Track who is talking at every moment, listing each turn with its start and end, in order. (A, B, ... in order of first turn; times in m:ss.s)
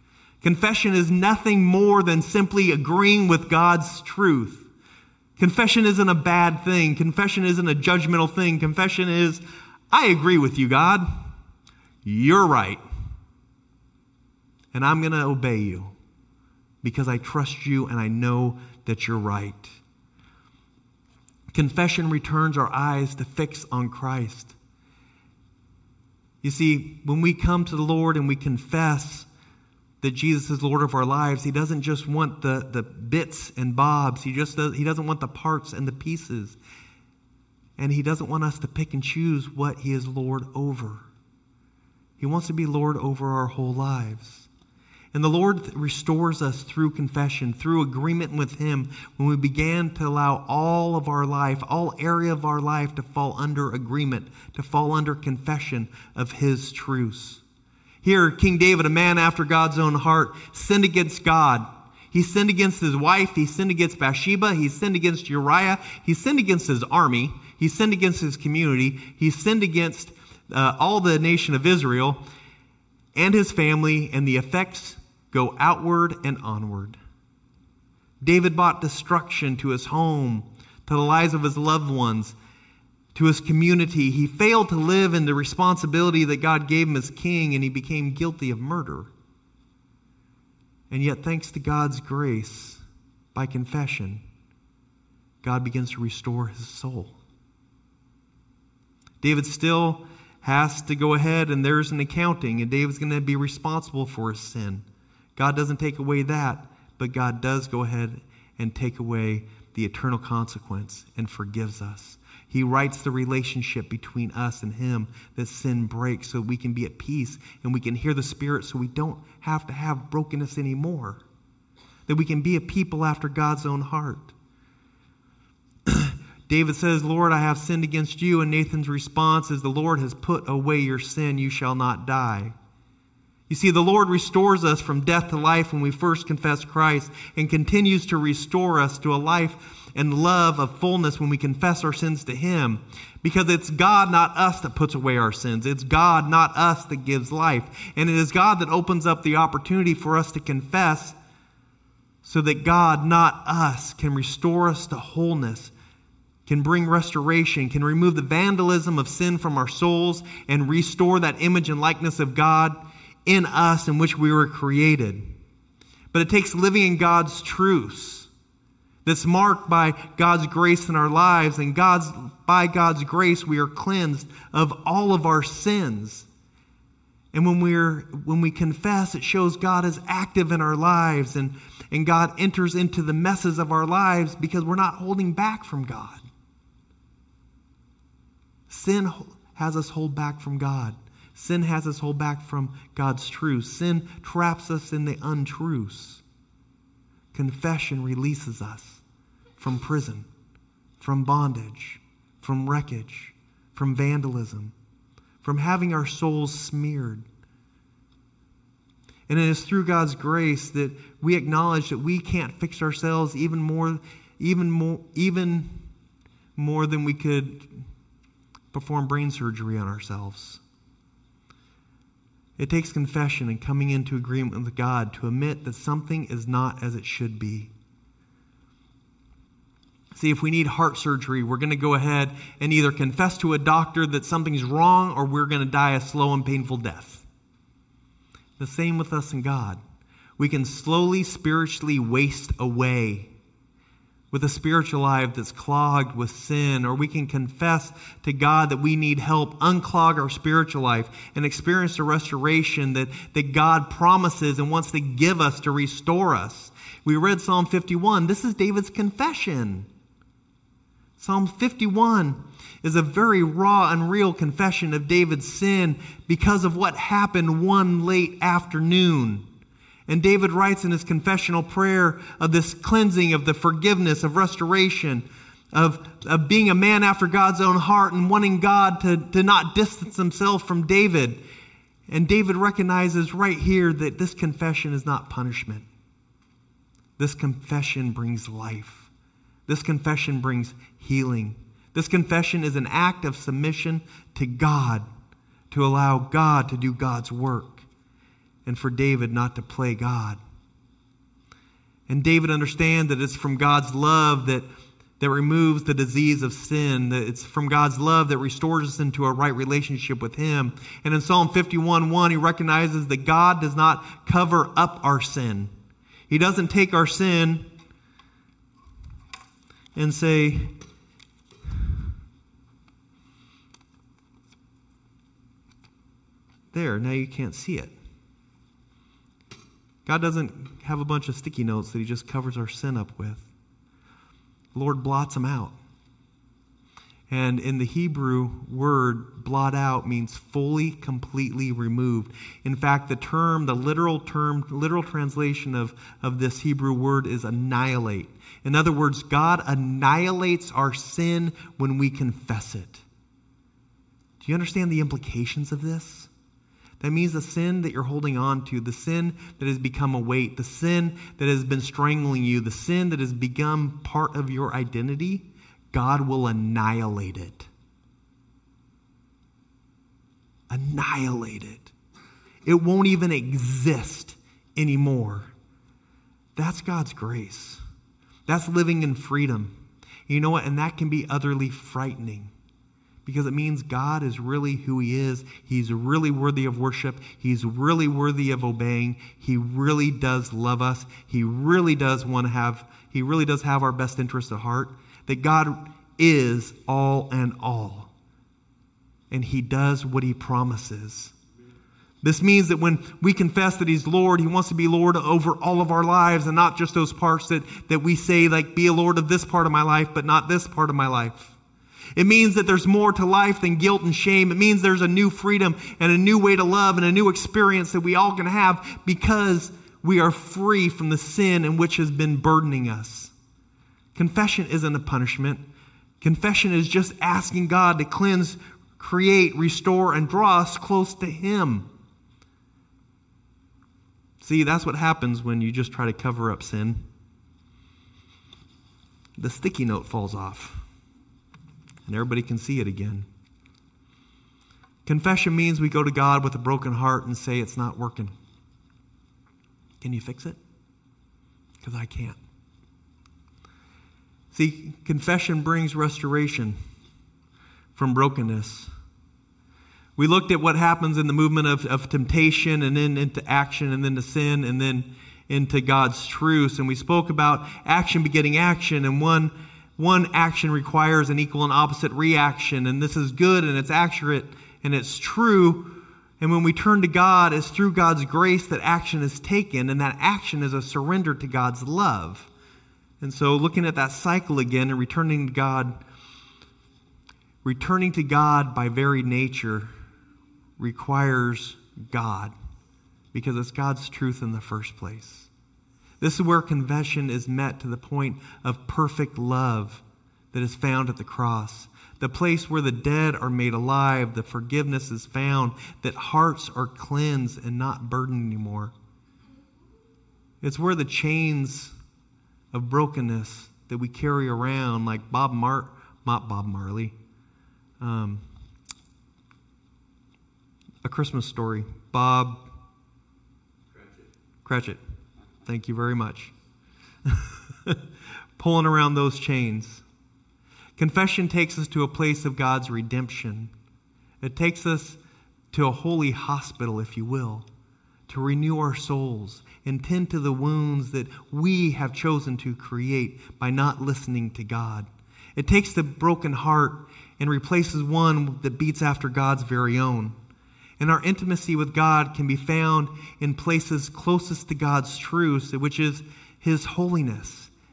0:00.4-0:04.6 A
0:05.4-0:11.1 A
0:12.0-0:12.8 A
0:14.7-0:15.9 A
0:16.8-0:19.8 A
0:21.5-0:24.5 A
0:26.4-0:29.3 A
0:30.0-0:36.6 A
0:37.8-0:41.0 A
0:42.2-0:44.5 A
0:45.1-0:57.4 A
0:58.0-1:12.2 A
1:13.1-1:17.0 A
1:18.2-1:22.3 A
1:23.1-1:29.1 A
1:30.9-1:32.8 A
1:33.3-1:34.2 A
1:35.4-1:37.2 A
1:39.2-1:44.8 A
1:45.4-2:01.2 A
2:02.1-2:04.3 A
2:05.9-2:12.5 A
2:13.5-2:31.2 A
2:32.2-2:35.7 A
2:36.4-2:45.3 A
2:46.1-2:48.3 A
2:49.0-2:56.3 A
2:57.3-3:06.2 A
3:08.7-3:16.2 A
3:17.3-3:19.0 A
3:19.6-3:20.3 A
3:21.0-3:24.7 A
3:25.4-3:27.2 A
3:29.3-3:35.7 A
3:36.6-3:37.7 A
3:38.7-3:40.6 A
3:42.6-3:47.7 A
3:50.1-3:57.2 A
3:58.6-3:59.8 A
4:00.4-4:03.3 A
4:04.3-4:19.9 A
4:21.2-4:29.4 A
4:30.1-4:41.4 A
4:42.1-4:45.8 A
4:47.2-4:49.1 A
4:49.7-4:55.1 A
4:55.7-4:57.8 A
4:58.6-5:00.4 A
5:02.1-5:04.7 A
5:05.2-5:15.7 A
5:16.3-5:17.7 A
5:19.9-5:20.7 A
5:26.7-5:27.9 A
5:30.0-5:33.5 A
5:34.7-5:35.7 A
5:37.3-5:53.0 A
5:54.4-5:56.3 A
5:57.0-6:07.7 A
6:10.7-6:11.9 A
6:12.6-6:15.5 A
6:16.6-6:17.8 A
6:18.5-6:19.7 A
6:20.3-6:22.5 A
6:23.2-6:38.1 A
6:39.3-6:41.3 A
6:42.2-6:51.6 A
6:52.1-7:03.3 A
7:04.1-7:05.6 A
7:06.2-7:11.9 A
7:14.4-7:17.0 A
7:19.4-7:20.8 A
7:22.0-7:23.3 A
7:25.0-7:28.3 A
7:30.0-7:30.6 A
7:31.8-7:32.4 A
7:34.5-7:36.8 A
7:37.9-7:38.9 A
7:40.2-7:55.9 A
7:56.4-8:02.5 A
8:03.2-8:06.0 A
8:07.6-8:09.9 A
8:10.8-8:12.5 A
8:13.3-8:15.5 A
8:16.2-8:28.9 A
8:30.6-8:31.9 A
8:32.7-8:37.1 A
8:38.0-8:38.4 A
8:41.0-8:42.6 A
8:44.6-8:45.0 A
8:45.6-8:46.5 A
8:47.3-8:48.0 A
8:48.6-8:50.0 A
8:51.0-8:53.7 A
8:54.4-8:55.2 A
8:55.7-8:57.7 A
8:58.3-9:10.4 A
9:11.0-9:17.7 A